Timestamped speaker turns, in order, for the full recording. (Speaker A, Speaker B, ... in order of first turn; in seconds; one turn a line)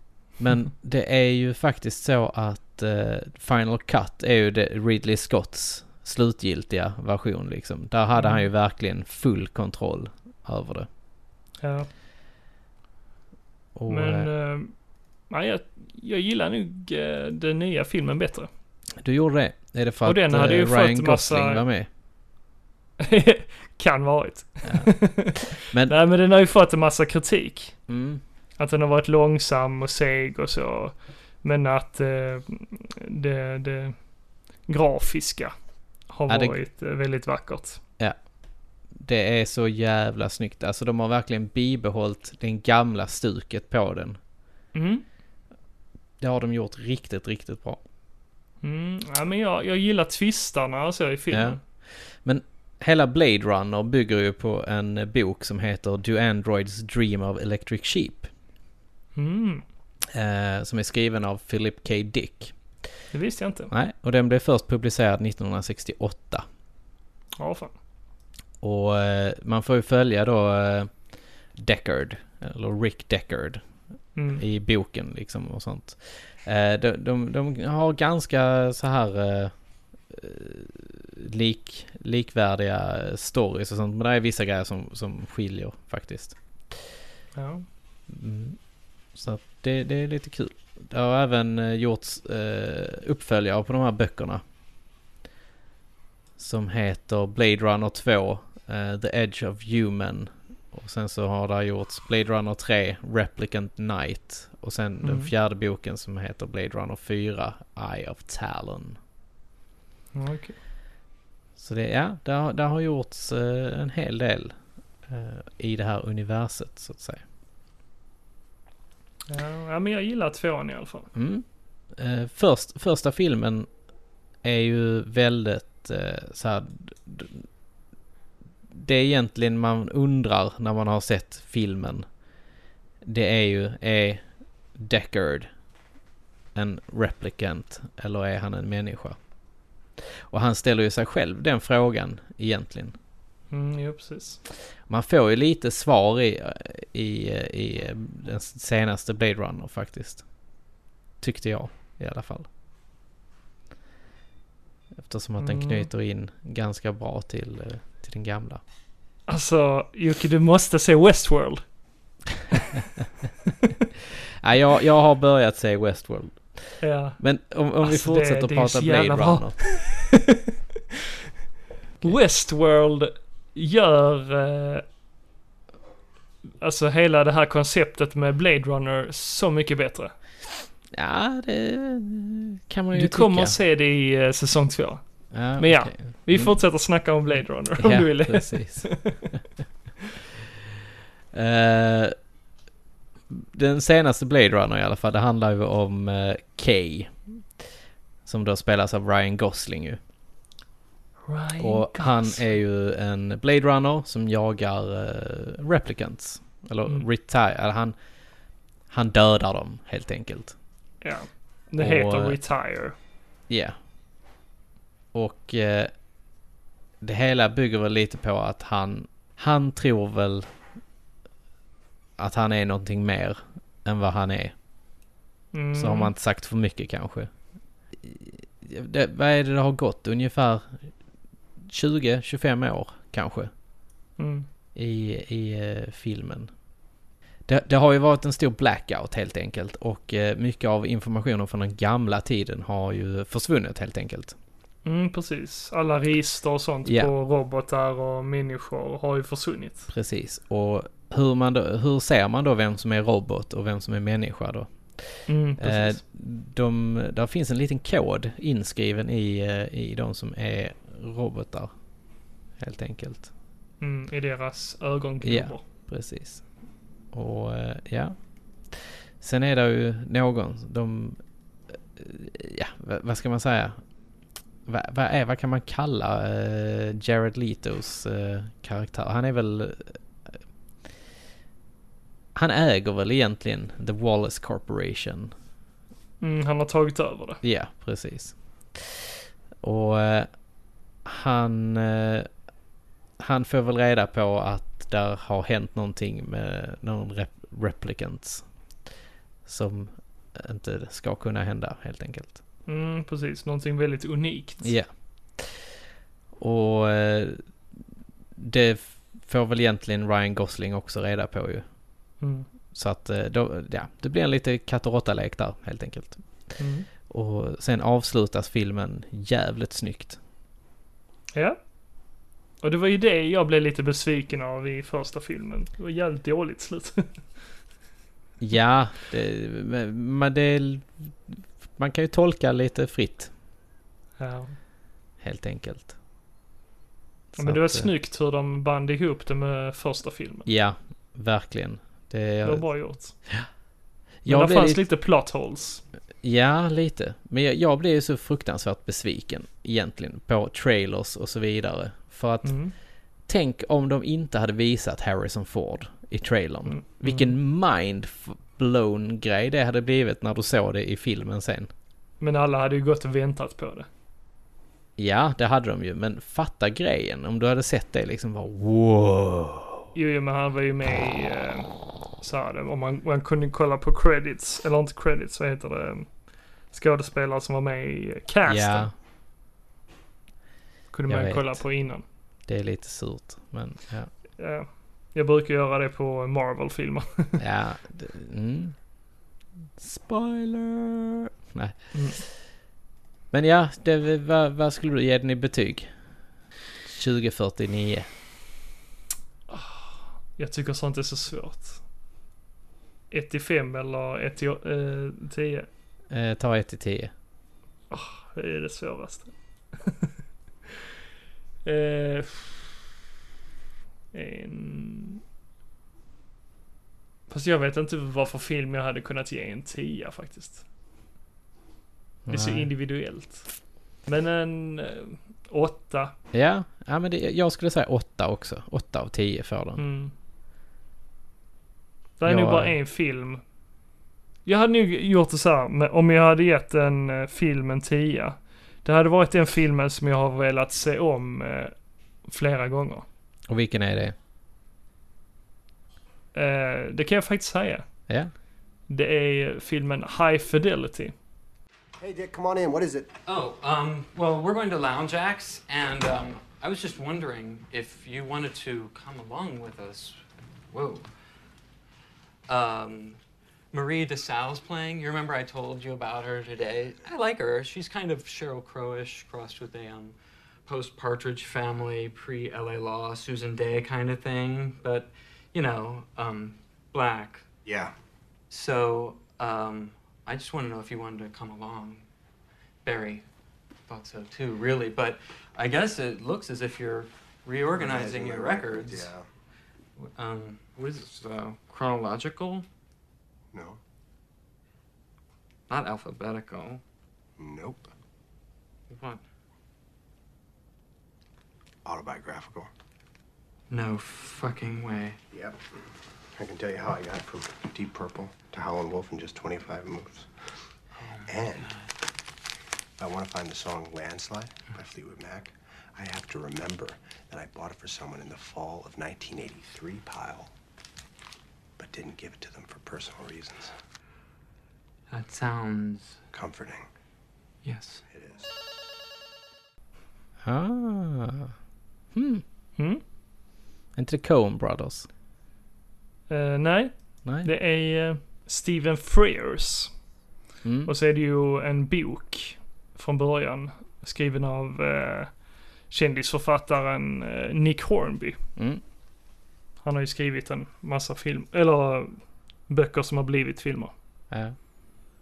Speaker A: 0.4-10.9
Speaker B: 8.2-8.5
Speaker B: 11.6-11.9
Speaker A: 13.8-14.3
Speaker B: 13.9-14.7
Speaker B: 15.3-18.5
Speaker A: 19.0-21.9
Speaker B: 20.1-21.6
Speaker B: 23.0-27.8
Speaker A: 24.7-25.0
Speaker A: 25.6-25.9
Speaker A: 27.9-28.2
Speaker B: 28.6-34.0
Speaker B: 34.7-35.5
Speaker B: 36.1-37.8
Speaker A: 36.3-36.6
Speaker A: 39.0-44.2
Speaker B: 44.8-45.0
Speaker A: 46.2-47.8
Speaker B: 48.6-51.6
Speaker A: 51.3-51.6
Speaker A: 52.2-58.3
Speaker B: 59.2-59.6
Speaker A: 60.1-62.5
Speaker B: 63.1-63.7
Speaker A: 63.7-66.4
Speaker B: 67.4-67.7
Speaker A: 68.6-70.9
Speaker A: 71.6-73.6
Speaker B: 74.2-74.4
Speaker A: 74.4-79.5
Speaker A: 80.1-86.4
Speaker B: 87.3-87.7
Speaker A: 88.1-88.6
Speaker A: 89.1-94.4
Speaker A: 96.4-109.0
Speaker B: 105.0-105.3
Speaker B: 110.2-110.5
Speaker A: 111.6-114.5
Speaker A: 115.1-117.2
Speaker B: 119.3-121.1
Speaker A: 121.1-123.7
Speaker A: 124.4-127.4
Speaker A: 128.7-132.1
Speaker A: 133.0-134.2
Speaker A: 134.8-135.5
Speaker A: 136.6-139.2
Speaker A: 140.3-143.0
Speaker B: 143.5-144.4
Speaker A: 144.9-150.2
Speaker A: 151.2-152.5
Speaker A: 155.0-158.6
Speaker B: 155.4-155.9
Speaker B: 159.3-161.6
Speaker A: 164.4-169.6
Speaker B: 166.8-167.2
Speaker B: 167.8-170.3
Speaker B: 172.0-174.8
Speaker B: 176.6-180.1
Speaker A: 180.9-183.6
Speaker B: 182.9-185.0
Speaker A: 185.3-186.6
Speaker B: 185.6-189.3
Speaker A: 187.8-189.4
Speaker A: 191.3-192.1
Speaker A: 193.3-197.2
Speaker A: 198.3-200.0
Speaker B: 201.3-202.4
Speaker A: 201.6-207.9
Speaker A: 208.9-210.6
Speaker B: 211.0-212.9
Speaker A: 211.8-212.4
Speaker A: 213.5-213.8
Speaker A: 215.1-215.9
Speaker A: 217.0-220.5
Speaker A: 222.2-224.5
Speaker B: 225.5-226.1
Speaker A: 225.8-227.3
Speaker A: 228.0-230.8
Speaker A: 231.7-233.5
Speaker B: 234.2-234.5
Speaker A: 234.8-236.5
Speaker A: 237.5-244.4
Speaker B: 244.8-249.9
Speaker A: 246.8-247.1
Speaker A: 249.9-261.7
Speaker B: 255.3-256.0
Speaker A: 262.6-263.3
Speaker B: 263.8-265.6
Speaker A: 265.2-266.4
Speaker A: 267.1-268.1
Speaker A: 268.7-271.2
Speaker A: 272.0-273.8
Speaker A: 274.7-280.0
Speaker A: 282.4-285.3
Speaker B: 286.2-287.4
Speaker A: 287.4-289.1
Speaker A: 289.6-290.3
Speaker A: 291.1-292.3
Speaker A: 293.2-298.4
Speaker A: 299.5-302.4
Speaker B: 302.7-304.7
Speaker A: 304.6-305.6
Speaker A: 306.4-307.4
Speaker A: 308.4-311.6
Speaker B: 312.2-312.5
Speaker A: 312.7-316.2
Speaker B: 316.6-316.9
Speaker A: 317.1-320.2
Speaker B: 322.6-327.2
Speaker A: 328.4-333.3
Speaker B: 334.2-334.6
Speaker A: 335.2-336.0
Speaker A: 337.4-337.9
Speaker B: 337.4-340.5
Speaker A: 340.5-342.7
Speaker B: 342.4-343.2
Speaker A: 344.2-344.9
Speaker B: 344.3-345.8
Speaker A: 346.2-352.6
Speaker B: 352.4-352.7
Speaker A: 353.3-361.7
Speaker B: 356.7-357.4
Speaker B: 362.2-363.9
Speaker A: 365.0-369.8
Speaker B: 369.9-371.7
Speaker B: 372.2-376.1
Speaker B: 376.7-378.9
Speaker A: 378.5-378.9
Speaker B: 380.9-382.0
Speaker A: 381.1-381.6
Speaker A: 382.5-384.1
Speaker B: 384.4-387.4
Speaker A: 387.4-388.8
Speaker A: 389.8-391.8
Speaker B: 391.9-392.2
Speaker A: 393.3-395.9
Speaker A: 396.9-398.1
Speaker B: 399.5-401.8
Speaker B: 403.1-405.7
Speaker A: 406.1-407.1
Speaker B: 407.9-409.3
Speaker B: 409.8-410.1
Speaker B: 411.6-412.8
Speaker B: 414.1-415.2
Speaker B: 417.3-420.6
Speaker A: 422.3-422.7
Speaker B: 422.3-423.5
Speaker B: 424.1-426.1
Speaker A: 426.3-429.8
Speaker B: 429.8-430.1
Speaker B: 432.2-433.4
Speaker A: 432.2-432.8
Speaker B: 434.5-441.7
Speaker B: 442.3-443.1
Speaker A: 443.5-444.1
Speaker B: 446.3-447.9
Speaker B: 448.9-451.1
Speaker C: 452.0-453.1
Speaker D: 453.3-461.1
Speaker D: 462.5-463.2
Speaker D: 463.7-470.1
Speaker D: 470.7-477.5
Speaker C: 477.6-477.9
Speaker D: 478.5-482.1
Speaker D: 482.8-483.2
Speaker D: 483.9-489.1
Speaker C: 487.7-489.2
Speaker D: 490.0-492.7
Speaker C: 493.5-493.8
Speaker D: 495.7-496.8
Speaker C: 497.4-497.9
Speaker D: 498.9-499.2
Speaker C: 501.9-502.7
Speaker D: 503.7-505.2
Speaker C: 505.3-505.6
Speaker C: 506.4-510.3
Speaker D: 511.0-511.8
Speaker C: 511.2-511.8
Speaker C: 513.0-520.5
Speaker C: 521.8-523.7
Speaker D: 525.1-526.2
Speaker C: 526.3-526.9
Speaker D: 527.6-528.0
Speaker C: 528.1-528.5
Speaker A: 530.5-531.5
Speaker A: 532.1-532.4
Speaker A: 534.0-535.1
Speaker B: 536.3-539.9
Speaker A: 540.6-540.9
Speaker B: 540.9-545.3
Speaker B: 545.9-548.4
Speaker B: 549.8-553.9